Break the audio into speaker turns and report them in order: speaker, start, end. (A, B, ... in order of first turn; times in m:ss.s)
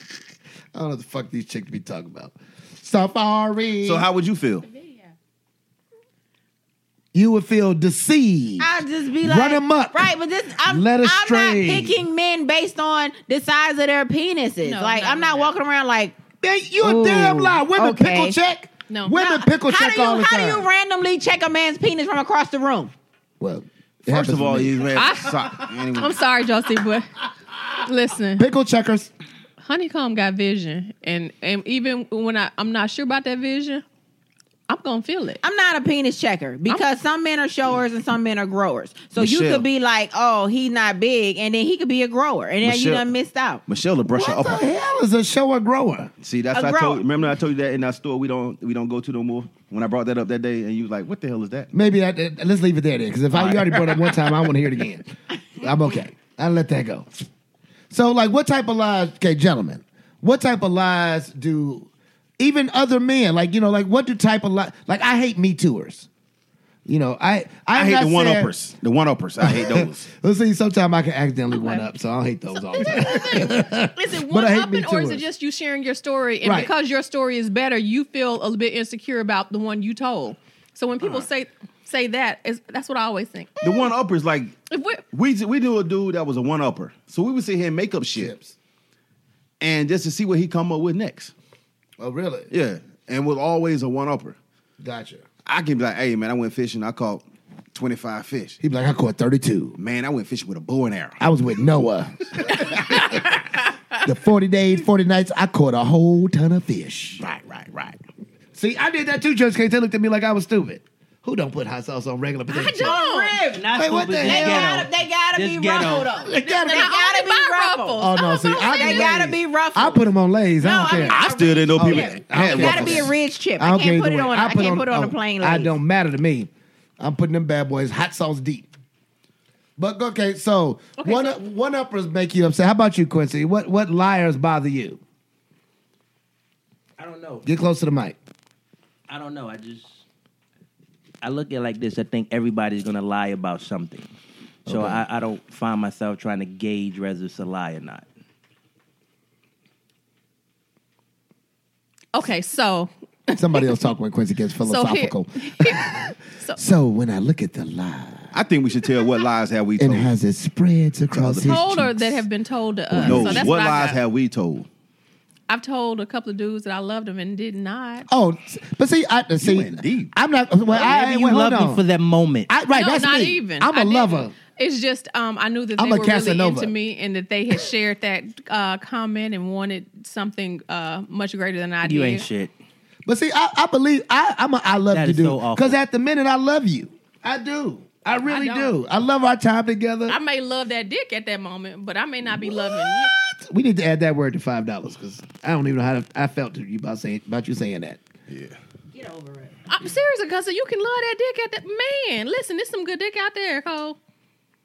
0:00.7-0:04.1 A
0:03.8-0:04.7 B
0:07.1-0:10.1 A
0:08.6-0:16.2 C
0:10.6-0:12.0 A
0:14.6-0:15.5 D
0:16.4-0:20.7 A
0:16.8-0:18.4 C
0:18.9-0:19.3 D
0:19.2-0:22.9 C
0:23.4-0:24.9 A
0:24.1-0:26.2 B
0:24.9-0:27.1 D
0:27.7-0:28.5 D
0:28.4-0:29.1 A
0:29.6-0:33.8 D
0:34.7-0:35.4 D
0:35.4-0:43.6 C
0:39.2-0:39.7 B
0:42.6-0:43.1 B
0:43.7-0:44.7 B
0:44.1-0:46.1 A
0:46.2-0:51.7 B
0:46.5-0:47.1 C
0:51.7-0:57.1 A
0:53.3-0:54.4 B
0:57.9-1:01.9 A
1:02.4-1:06.1 A
1:06.9-1:08.5 A
1:07.7-1:10.1 B
1:09.4-1:15.2 A
1:11.5-1:11.9 D
1:12.7-1:23.9 D
1:16.4-1:16.7 A
1:23.6-1:24.6 B
1:24.7-1:25.0 D
1:25.1-1:28.4 B
1:28.2-1:28.5 A
1:29.6-1:31.3 B
1:32.0-1:32.5 A
1:32.5-1:34.4 B
1:34.8-1:35.3 A
1:35.4-1:38.6 B
1:38.6-1:39.8 A
1:39.8-1:41.2 B
1:41.2-1:43.2 A
1:42.5-1:43.0 B
1:44.0-1:47.2 A
1:47.2-1:48.0 B
1:48.6-1:53.0 A
1:52.5-1:53.4 D
1:52.8-1:53.7 C
1:53.5-1:56.1 E
1:53.7-1:54.8 A
1:54.2-2:00.1 C
1:56.2-1:56.9 A
1:56.5-1:59.1 D
1:58.0-2:01.2 A
2:00.6-2:05.8 C
2:00.8-2:03.1 B
2:01.8-2:08.7 A
2:09.8-2:15.0 A
2:11.0-2:11.4 D
2:17.0-2:17.5 E
2:17.4-2:18.2 A
2:19.1-2:20.0 E
2:21.2-2:24.1 E
2:24.7-2:25.0 A
2:24.7-2:28.1 E
2:32.1-2:33.7 D
2:33.4-2:38.3 A
2:34.7-2:36.6 D
2:38.3-2:40.1 B
2:39.8-2:42.2 A
2:41.1-2:41.6 B
2:41.4-2:44.0 D
2:42.9-2:43.5 A
2:43.0-2:44.7 B
2:45.5-2:48.1 D
2:48.1-2:51.8 A
2:49.4-2:50.1 B
2:50.7-2:52.5 E
2:52.5-2:54.4 A
2:52.7-3:02.3 D
2:55.8-2:56.7 A
3:01.8-3:02.5 E
3:03.1-3:10.2 A
3:04.9-3:05.8 E
3:08.3-3:08.8 D
3:10.1-3:13.1 D
3:12.4-3:18.0 A
3:18.3-3:18.6 B
3:18.9-3:19.6 C
3:19.7-3:24.0 D